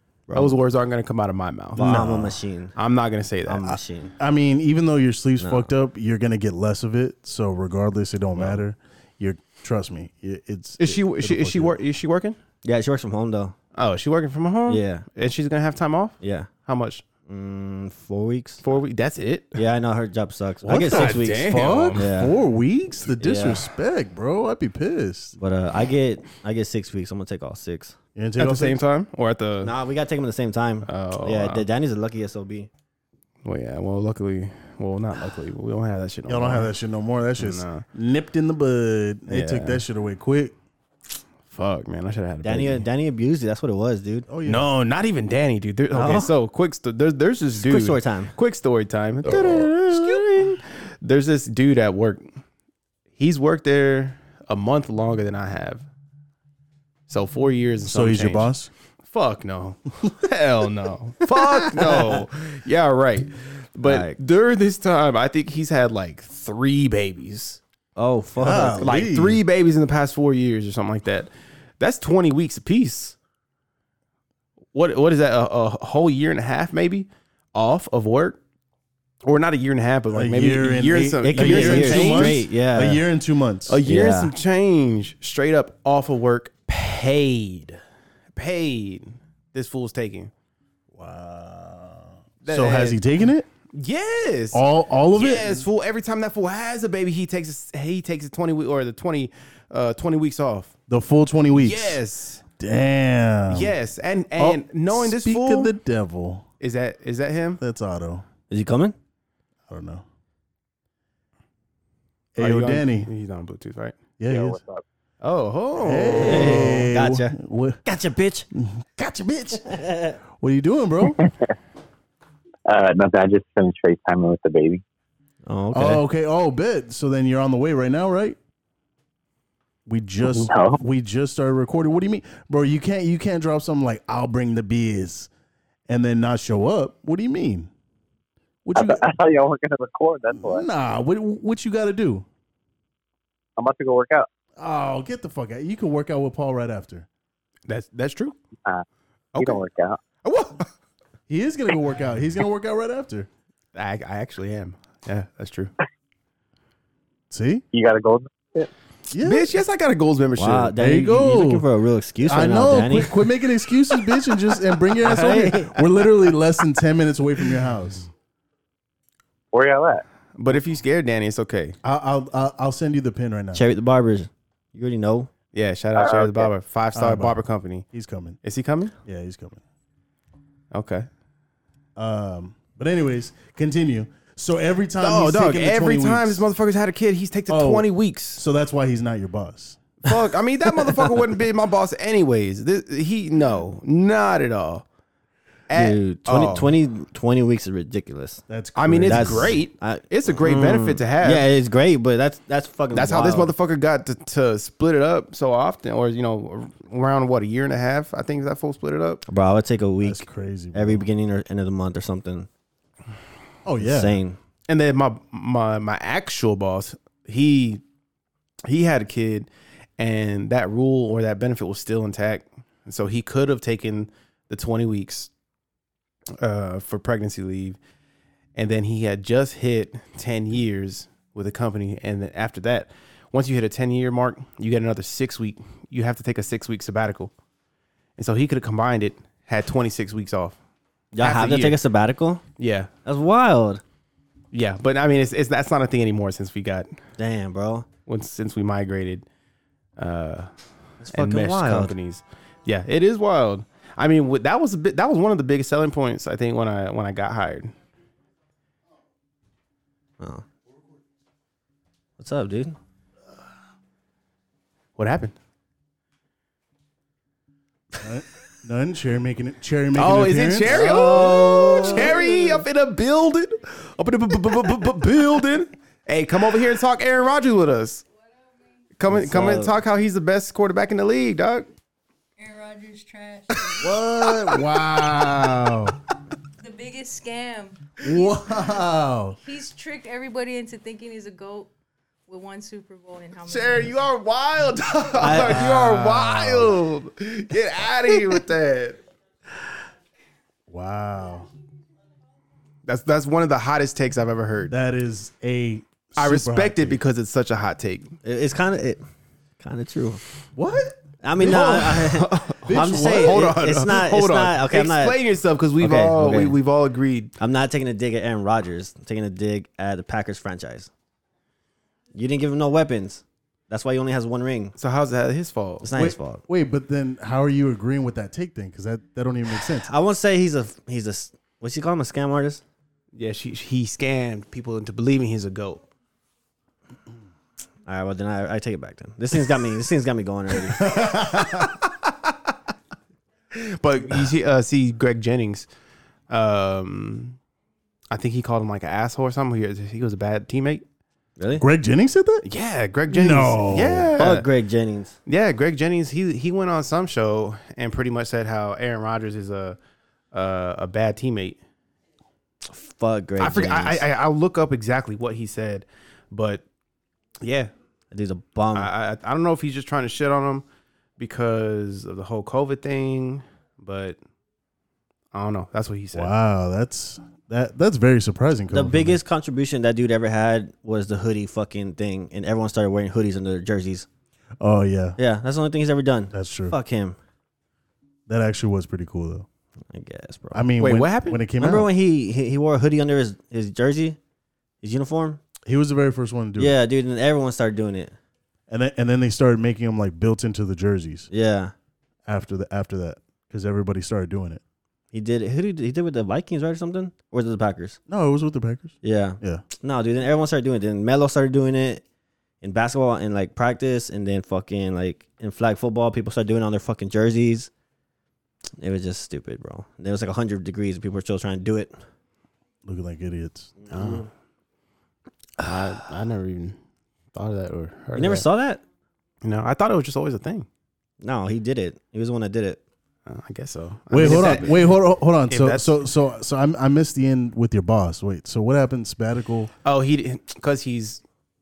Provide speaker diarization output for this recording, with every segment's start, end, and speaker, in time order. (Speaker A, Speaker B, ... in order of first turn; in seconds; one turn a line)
Speaker A: 0.3-0.6
Speaker B: 0.3-2.2
Speaker A: 1.7-2.7
Speaker C: 1.8-2.4
Speaker B: 2.7-3.8
Speaker A: 3.5-4.1
Speaker C: 4.2-11.8
Speaker A: 5.4-5.7
Speaker B: 10.8-12.3
Speaker A: 12.6-13.5
Speaker B: 13.7-17.0
Speaker A: 14.7-15.0
Speaker A: 16.2-16.5
Speaker A: 17.3-18.6
Speaker B: 18.6-19.6
Speaker A: 19.5-22.3
Speaker C: 20.6-25.4
Speaker B: 20.7-22.0
Speaker A: 23.2-23.6
Speaker A: 25.4-27.9
Speaker C: 28.1-28.8
Speaker B: 28.4-29.7
Speaker A: 29.6-32.7
Speaker B: 30.9-31.6
Speaker B: 33.4-36.7
Speaker C: 36.3-40.5
Speaker B: 37.4-37.8
Speaker A: 39.3-39.8
Speaker B: 41.5-42.9
Speaker A: 42.4-44.3
Speaker C: 44.3-44.6
Speaker B: 44.4-52.2
Speaker A: 45.9-46.3
Speaker A: 47.6-48.3
Speaker C: 49.2-50.2
Speaker B: 53.2-55.8
Speaker B: 57.1-58.5
Speaker C: 57.9-58.7
Speaker B: 59.0-67.6
Speaker A: 63.8-64.1
Speaker A: 68.0-68.9
Speaker C: 68.4-69.4
Speaker B: 68.8-73.2
Speaker B: 74.7-78.4
Speaker B: 79.2-82.4
Speaker C: 80.1-83.8
Speaker A: 81.2-83.0
Speaker B: 83.7-87.8
Speaker A: 83.8-84.3
Speaker B: 88.3-90.3
Speaker C: 90.9-93.5
Speaker B: 92.4-93.0
Speaker B: 93.7-100.7
Speaker C: 94.5-95.6
Speaker C: 100.9-102.0
Speaker B: 101.5-102.4
Speaker C: 102.6-103.7
Speaker B: 103.5-105.7
Speaker C: 104.4-106.5
Speaker B: 106.6-107.6
Speaker C: 107.6-108.2
Speaker A: 108.5-108.9
Speaker C: 109.7-110.0
Speaker C: 112.3-113.1
Speaker B: 112.4-114.1
Speaker C: 114.2-114.6
Speaker D: 114.3-114.8
Speaker B: 115.2-116.7
Speaker C: 115.8-117.8
Speaker A: 116.2-118.5
Speaker C: 118.5-121.2
Speaker A: 119.7-120.2
Speaker D: 122.7-124.8
Speaker A: 125.5-126.0
Speaker C: 125.7-128.4
Speaker C: 129.8-135.3
Speaker D: 130.2-130.8
Speaker C: 135.9-137.7
Speaker C: 138.6-139.1
Speaker D: 138.8-140.6
Speaker C: 140.3-142.2
Speaker D: 143.6-144.3
Speaker C: 144.6-147.1
Speaker B: 147.7-148.3
Speaker B: 149.3-149.6
Speaker D: 149.4-150.0
Speaker B: 150.2-150.7
Speaker C: 151.3-153.3
Speaker B: 153.7-155.7
Speaker C: 157.3-157.6
Speaker D: 157.7-158.7
Speaker C: 159.1-159.5
Speaker B: 159.1-160.7
Speaker A: 160.4-163.1
Speaker C: 160.8-161.6
Speaker C: 162.2-168.1
Speaker A: 165.0-165.8
Speaker D: 169.5-170.0
Speaker B: 170.4-171.8
Speaker C: 171.8-173.6
Speaker A: 173.5-175.3
Speaker B: 175.5-177.9
Speaker D: 176.0-176.5
Speaker C: 176.9-177.3
Speaker C: 177.9-178.4
Speaker B: 178.4-178.9
Speaker C: 179.0-179.6
Speaker B: 180.7-181.1
Speaker C: 181.9-186.5
Speaker B: 185.0-188.4
Speaker C: 187.5-189.9
Speaker B: 190.0-194.8
Speaker B: 195.7-196.7
Speaker A: 195.7-198.4
Speaker C: 198.5-199.6
Speaker B: 198.8-201.5
Speaker A: 199.1-203.5
Speaker B: 202.9-209.2
Speaker A: 209.3-212.5
Speaker C: 210.0-211.1
Speaker C: 213.6-214.2
Speaker A: 213.8-214.4
Speaker B: 214.7-217.8
Speaker B: 218.6-225.3
Speaker B: 226.4-227.8
Speaker B: 228.6-237.3
Speaker B: 238.2-240.6
Speaker A: 241.1-242.4
Speaker B: 241.2-241.8
Speaker B: 242.6-242.9
Speaker A: 243.1-243.8
Speaker B: 244.5-247.0
Speaker A: 247.2-247.9
Speaker B: 248.1-249.2
Speaker B: 250.0-250.5
Speaker A: 251.0-251.9
Speaker B: 251.1-257.7
Speaker A: 262.2-262.8
Speaker B: 265.0-265.3
Speaker C: 268.0-272.2
Speaker B: 269.9-278.0
Speaker A: 270.6-272.6
Speaker B: 279.0-281.7
Speaker A: 279.1-279.7
Speaker E: 282.4-284.6
Speaker C: 283.8-285.9
Speaker E: 286.6-288.8
Speaker C: 288.0-289.4
Speaker E: 289.4-291.7
Speaker E: 292.3-293.9
Speaker B: 293.4-299.0
Speaker A: 295.2-295.6
Speaker C: 295.2-296.8
Speaker C: 300.7-301.5
Speaker B: 302.9-304.7
Speaker C: 304.7-307.0
Speaker B: 306.2-308.1
Speaker A: 308.2-309.0
Speaker A: 309.6-310.2
Speaker C: 310.6-311.8
Speaker A: 311.2-315.1
Speaker B: 311.4-317.3
Speaker C: 312.6-313.5
Speaker A: 315.8-316.6
Speaker A: 317.4-320.9
Speaker A: 322.1-324.7
Speaker B: 324.8-325.9
Speaker A: 325.8-326.4
Speaker C: 325.9-329.9
Speaker A: 329.8-332.6
Speaker B: 333.1-335.9
Speaker A: 337.9-340.9
Speaker C: 340.8-341.7
Speaker B: 341.1-341.7
Speaker B: 343.5-345.7
Speaker B: 346.3-347.4
Speaker B: 348.1-350.8
Speaker A: 351.4-351.6
Speaker C: 351.6-352.4
Speaker B: 352.4-354.4
Speaker C: 353.1-354.2
Speaker A: 354.2-355.1
Speaker B: 355.2-359.8
Speaker B: 360.3-361.6
Speaker A: 362.7-364.0
Speaker B: 363.4-366.6
Speaker B: 367.4-367.7
Speaker A: 368.1-368.9
Speaker B: 368.7-370.6
Speaker B: 371.2-374.2
Speaker B: 375.3-376.3
Speaker C: 376.1-379.2
Speaker A: 378.7-384.1
Speaker C: 384.6-385.2
Speaker A: 385.2-387.1
Speaker C: 386.3-386.8
Speaker C: 388.3-389.4
Speaker A: 389.9-390.6
Speaker C: 390.5-391.9
Speaker B: 390.8-391.4
Speaker A: 391.6-394.2
Speaker A: 394.8-395.4
Speaker C: 395.6-396.8
Speaker A: 396.6-398.1
Speaker C: 398.7-401.3
Speaker A: 401.3-401.7
Speaker C: 402.2-404.6
Speaker A: 405.1-408.0
Speaker C: 408.1-409.6
Speaker A: 409.0-412.0
Speaker A: 412.6-417.7
Speaker A: 418.8-421.9
Speaker C: 422.8-424.2
Speaker B: 423.9-424.2
Speaker B: 425.6-426.8
Speaker B: 427.3-428.4
Speaker A: 428.1-428.8
Speaker B: 429.4-430.7
Speaker A: 431.2-432.8
Speaker B: 433.3-434.9
Speaker C: 434.1-439.7
Speaker B: 435.5-435.9
Speaker B: 439.8-441.2